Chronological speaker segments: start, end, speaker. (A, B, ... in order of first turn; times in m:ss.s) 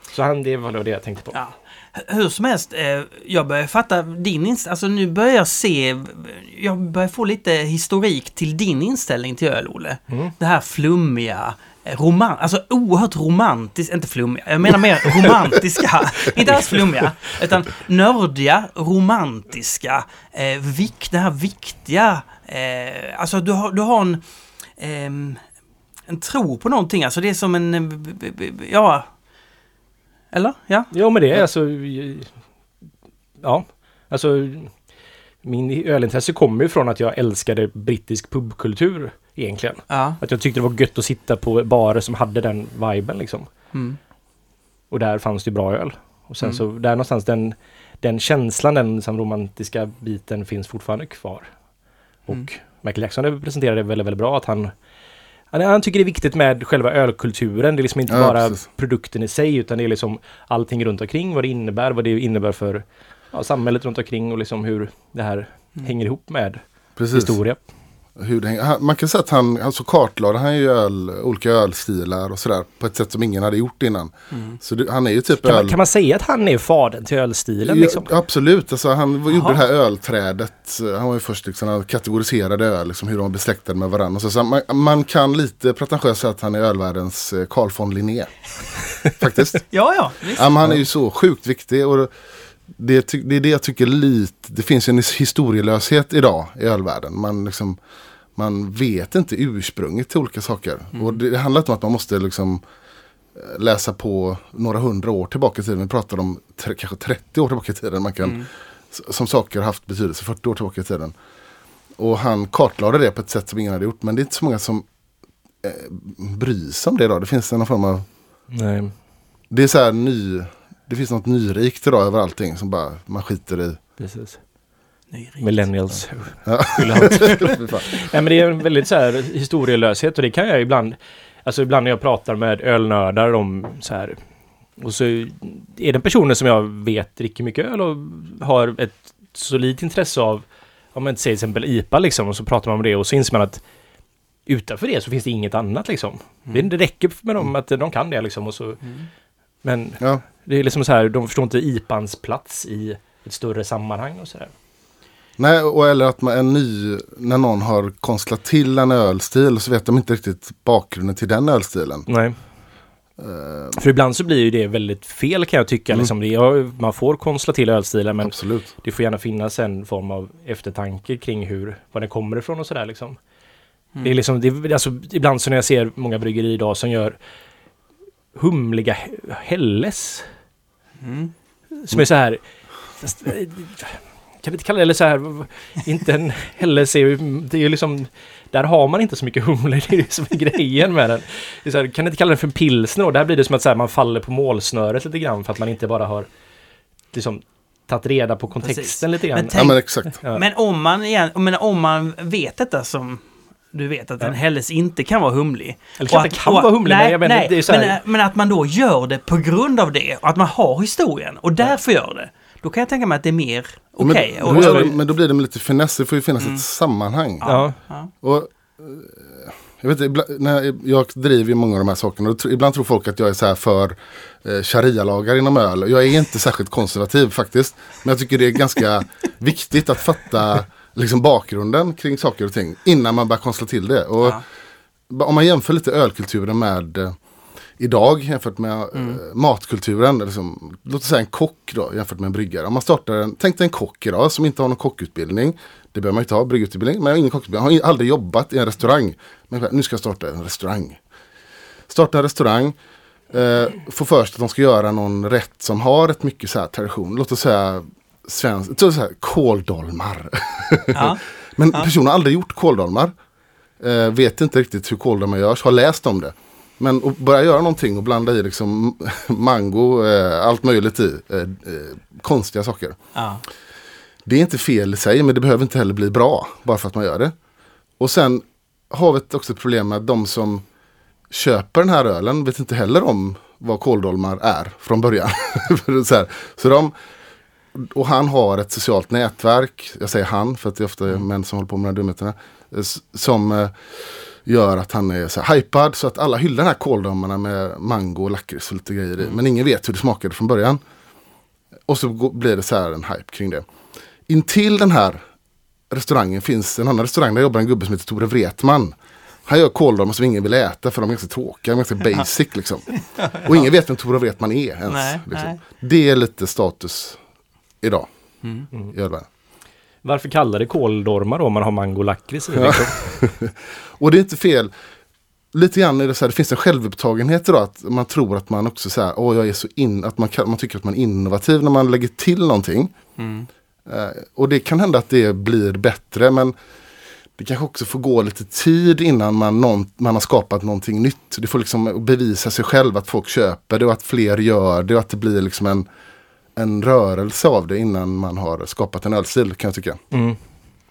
0:00.1-0:01.4 A
0:01.3-0:24.2 B
0:24.8-0:25.4 B
0:26.1-0:29.1 B
0:30.3-0:31.4 B
0:30.9-0:32.3 A
0:33.4-0:34.7 A
0:35.4-0:43.5 A
0:39.9-0:40.2 B
0:43.7-0:44.0 B
0:44.9-0:51.5 A
0:52.3-0:54.7 A
0:55.5-1:07.6 A
0:58.1-0:58.6 C
1:07.0-1:07.4 C
1:08.2-1:15.8 C
1:14.3-1:14.6 B
1:15.4-1:18.1 A
1:17.7-1:28.3 C
1:19.3-1:19.6 B
1:29.1-1:29.6 C
1:29.7-1:30.5 B
1:30.4-1:32.1 C
1:32.8-1:37.8 C
1:38.4-1:42.6 C
1:43.4-1:51.2 C
1:52.0-1:54.8 C
1:55.6-1:58.1 C
1:58.5-1:59.0 A
1:59.5-2:03.8 C
2:04.0-2:04.4 A
2:05.1-2:06.0 B
2:05.4-2:14.2 A
2:06.5-2:07.9 C
2:14.8-2:23.6 A
2:24.5-2:28.8 A
2:29.6-2:34.5 A
2:35.4-2:42.1 C
2:42.1-2:42.4 A
2:43.2-2:43.8 C
2:43.8-2:53.2 A
2:48.2-2:48.7 C
2:54.0-2:57.2 A
2:58.4-3:00.3 A
3:01.0-3:01.3 B
3:01.7-3:02.4 A
3:03.0-3:16.3 A
3:17.1-3:20.4 A
3:18.6-3:34.9 B
3:19.5-3:20.2 C
3:26.0-3:28.0 A
3:34.0-3:37.5 C
3:34.5-3:34.9 A
3:37.4-3:38.1 B
3:37.4-3:37.8 A
3:38.2-3:54.4 C
3:55.1-3:57.2 C
3:57.8-4:11.0 C
3:59.0-3:59.2 B
4:11.9-4:12.8 C
4:13.3-4:23.1 C
4:20.9-4:21.9 B
4:23.8-4:33.0 C
4:33.2-4:33.4 B
4:34.3-4:37.3 C
4:38.0-4:40.6 C
4:41.3-4:46.9 C
4:47.8-5:00.8 C
5:01.9-5:03.7 C
5:04.3-5:05.2 C
5:05.9-5:09.0 C
5:09.5-5:17.2 C
5:13.2-5:13.6 B
5:14.9-5:15.6 B
5:17.8-5:18.1 C
5:18.9-5:19.3 C
5:20.0-5:23.1 A
5:22.5-5:24.7 C
5:25.5-5:32.9 C
5:33.2-5:33.5 B
5:33.9-5:36.5 C
5:37.4-5:45.9 C
5:46.6-5:50.0 C
5:50.1-5:50.4 A